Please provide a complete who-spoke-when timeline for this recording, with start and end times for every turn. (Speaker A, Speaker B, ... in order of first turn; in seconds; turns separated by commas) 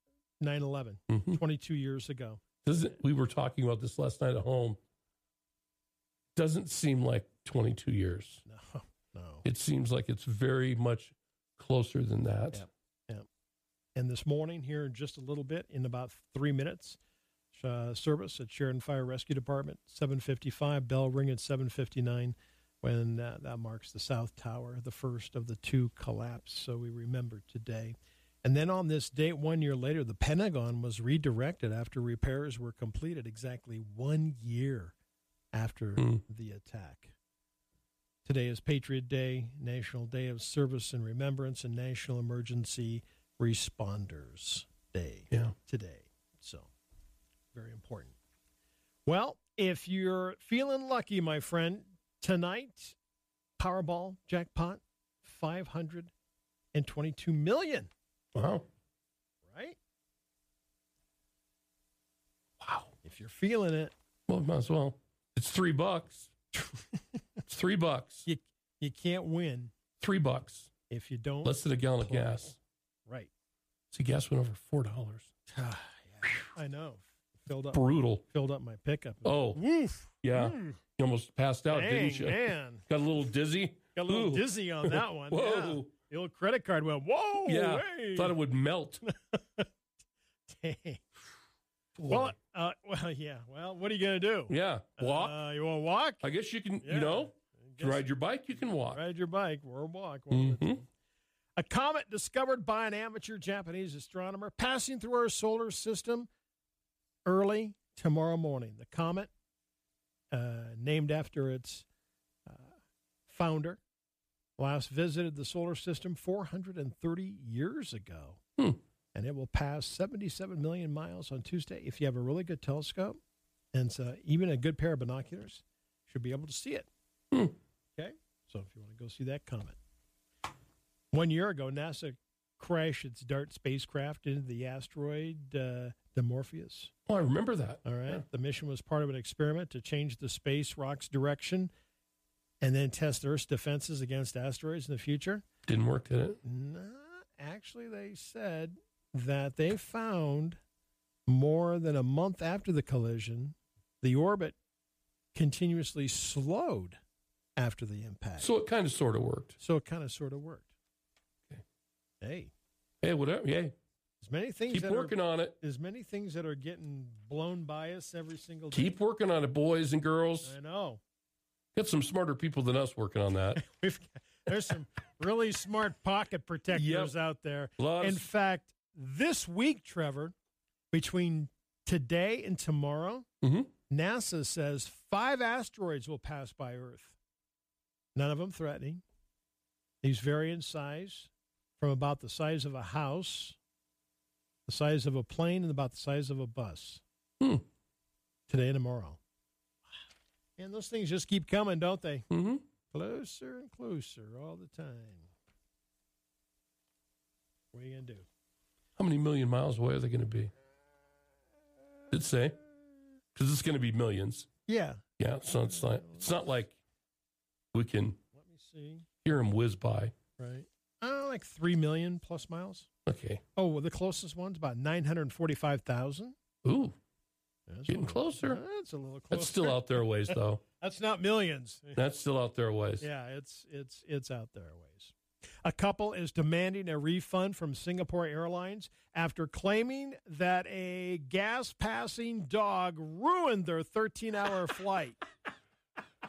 Speaker A: 0.4-2.4, Speaker B: 1.1-1.4, Speaker B: 2.6-4.8, Speaker B: 6.3-8.4, Speaker A: 8.4-9.4, Speaker B: 9.4-12.6, Speaker A: 12.6-13.3, Speaker A: 13.9-17.0, Speaker A: 17.5-35.0, Speaker A: 35.5-37.1, Speaker A: 38.2-46.7, Speaker A: 47.5-48.1, Speaker A: 49.0-53.0, Speaker A: 53.6-56.1, Speaker A: 56.7-57.9, Speaker B: 58.3-58.6, Speaker A: 59.4-59.8, Speaker B: 62.6-62.9, Speaker A: 63.0-63.9, Speaker B: 64.3-66.3, Speaker A: 66.6-67.2, Speaker B: 67.5-68.2, Speaker A: 68.2-69.7, Speaker B: 70.0-70.7, Speaker A: 70.9-72.5, Speaker B: 71.4-72.5, Speaker A: 73.0-73.3, Speaker B: 73.9-75.3, Speaker A: 75.5-80.8, Speaker B: 77.7-78.2, Speaker B: 79.2-79.6, Speaker B: 80.2-85.9, Speaker A: 81.7-82.8, Speaker A: 83.9-88.3, Speaker B: 87.4-89.0, Speaker A: 89.1-89.7, Speaker A: 90.5-91.0, Speaker B: 92.0-92.3, Speaker A: 92.1-96.3, Speaker B: 94.5-95.3, Speaker B: 96.2-99.0, Speaker A: 96.8-98.0, Speaker A: 98.7-100.9, Speaker B: 100.3-100.8, Speaker A: 101.6-106.3, Speaker A: 107.2-109.3, Speaker A: 110.3-111.9, Speaker A: 112.5-112.7, Speaker A: 113.3-113.8, Speaker A: 114.6-118.4, Speaker A: 119.1-123.2, Speaker A: 123.7-126.9, Speaker A: 128.0-129.8, Speaker A: 131.1-136.9, Speaker B: 137.1-138.2, Speaker A: 137.8-141.7, Speaker A: 142.6-145.5, Speaker B: 145.7-146.4, Speaker A: 146.4-150.6, Speaker A: 151.3-154.6, Speaker A: 155.3-157.0, Speaker A: 157.6-158.5, Speaker B: 158.4-159.6, Speaker A: 159.6-160.7, Speaker A: 162.2-162.5, Speaker B: 163.0-163.7, Speaker A: 164.2-168.9, Speaker B: 164.7-165.6, Speaker B: 168.7-170.5, Speaker A: 170.4-171.0, Speaker B: 171.7-173.6, Speaker A: 173.6-180.3, Speaker B: 176.7-177.1, Speaker B: 177.8-178.2, Speaker A: 180.9-183.2, Speaker B: 183.4-183.7, Speaker A: 183.9-187.2, Speaker A: 188.2-189.0, Speaker A: 190.0-193.6, Speaker A: 194.7-197.0, Speaker A: 198.5-199.2, Speaker A: 200.6-202.3, Speaker B: 202.3-202.6, Speaker A: 202.9-205.3, Speaker A: 207.7-208.3, Speaker B: 209.0-210.5, Speaker B: 212.1-212.6, Speaker B: 213.3-214.5, Speaker A: 214.7-216.4, Speaker B: 215.2-216.8, Speaker B: 217.7-218.2, Speaker A: 218.3-219.1, Speaker B: 219.2-220.1, Speaker A: 220.4-222.9, Speaker B: 223.1-223.4, Speaker A: 223.6-226.3, Speaker B: 226.6-226.9, Speaker A: 227.7-232.0, Speaker B: 227.9-228.6, Speaker B: 229.3-230.6, Speaker B: 231.9-233.1, Speaker A: 233.0-245.2